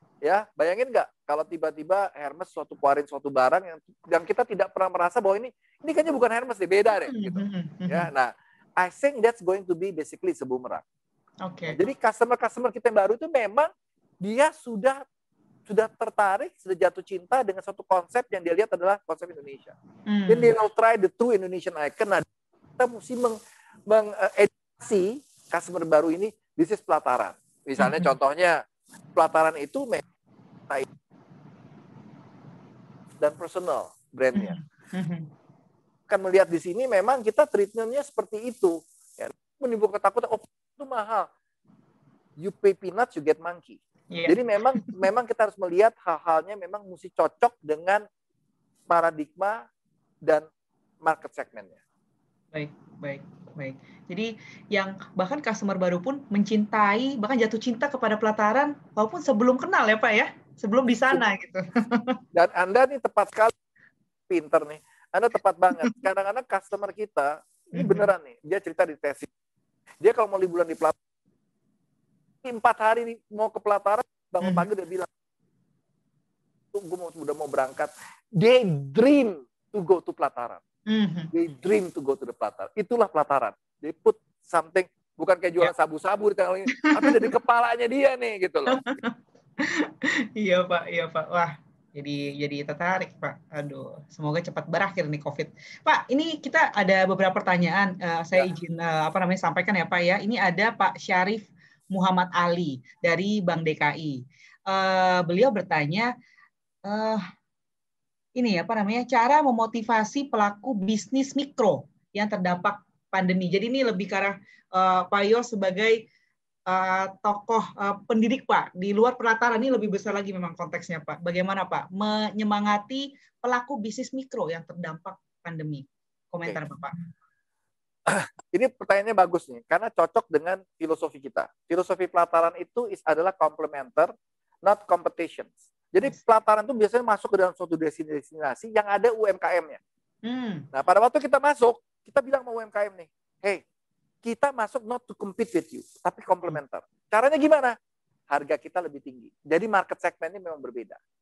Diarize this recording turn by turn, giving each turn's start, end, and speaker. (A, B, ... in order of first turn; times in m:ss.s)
0:00.2-0:10.8 A
0:07.0-0:08.1 B
0:11.4-0:11.8 B
0:11.7-0:13.7 A
0:14.2-0:15.0 A
0:15.7-0:19.7 A
0:20.1-0:20.6 B
0:20.3-0:22.3 A
0:22.8-0:28.6 A
0:27.8-0:28.1 B
0:29.2-0:30.0 A
0:33.2-0:34.6 A
0:34.4-0:35.3 B
0:36.1-0:41.3 A
0:42.4-0:48.0 A
0:44.1-0:44.9 B
0:48.9-0:49.7 A
0:51.0-0:51.8 A
0:52.5-1:02.2 B
1:02.3-1:03.5 A
1:04.3-1:09.3 A
1:07.8-1:08.1 B
1:10.0-1:11.0 A
1:12.4-1:15.1 A
1:14.4-1:14.7 B
1:16.7-1:20.6 A
1:20.9-1:21.3 B
1:21.3-1:28.8 A
1:26.8-1:27.3 B
1:28.7-1:46.1 B
1:46.8-1:47.2 B
1:48.4-1:56.0 B
1:56.7-2:07.0 B
2:08.1-2:14.1 A
2:14.6-2:19.8 A
2:20.2-2:20.7 B
2:20.7-2:23.6 A
2:24.2-2:27.8 A
2:28.3-2:31.0 A